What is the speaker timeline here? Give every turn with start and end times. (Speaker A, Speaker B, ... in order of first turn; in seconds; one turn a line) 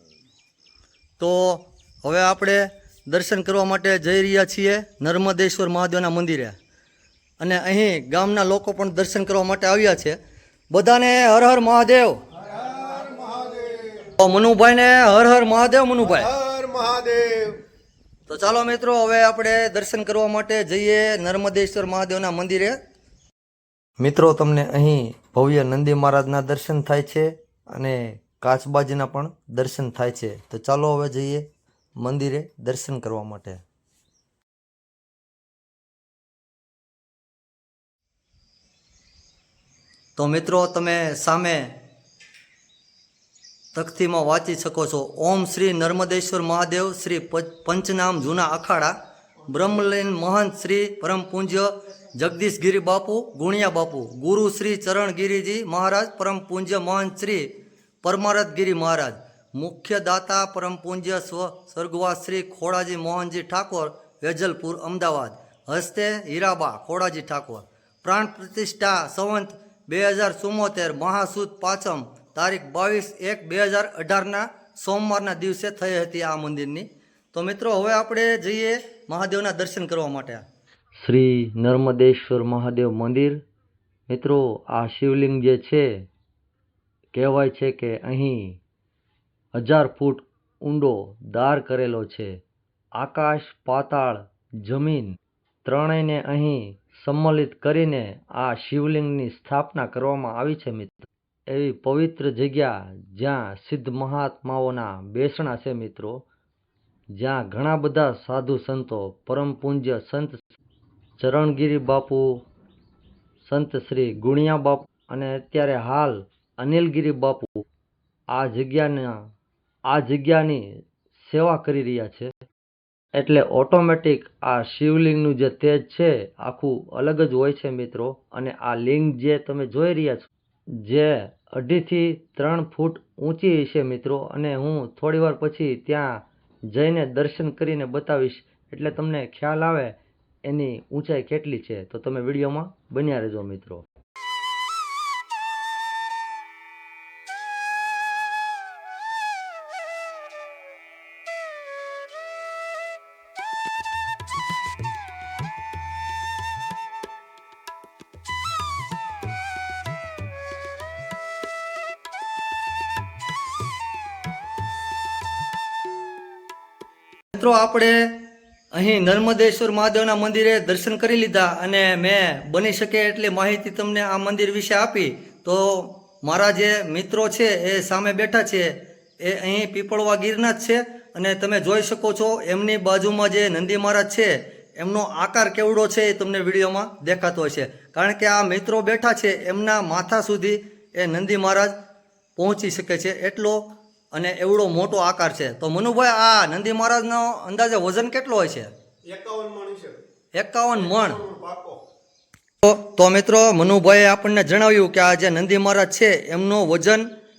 Speaker A: 1.2-6.5
Speaker A: 7.4-10.2
Speaker A: 10.7-12.2
Speaker B: 12.4-14.1
Speaker A: 14.2-16.3
Speaker B: 16.0-17.6
Speaker A: 18.3-22.8
Speaker A: 24.0-31.4
Speaker A: 32.0-33.6
Speaker A: 40.1-41.8
Speaker A: 43.7-48.9
Speaker A: 49.5-57.5
Speaker A: 58.0-80.4
Speaker A: 81.0-83.4
Speaker A: 84.1-85.9
Speaker A: 87.1-88.6
Speaker A: 89.5-92.4
Speaker A: 93.0-106.2
Speaker A: 107.2-110.4
Speaker A: 111.2-112.3
Speaker A: 113.4-117.6
Speaker A: 118.3-119.2
Speaker A: 119.9-120.7
Speaker A: 121.2-122.3
Speaker A: 123.2-130.3
Speaker A: 130.8-143.8
Speaker A: 167.3-191.7
Speaker A: 192.4-198.7
Speaker B: 199.1-200.0
Speaker A: 200.3-201.2
Speaker B: 200.7-201.8
Speaker A: 202.6-207.1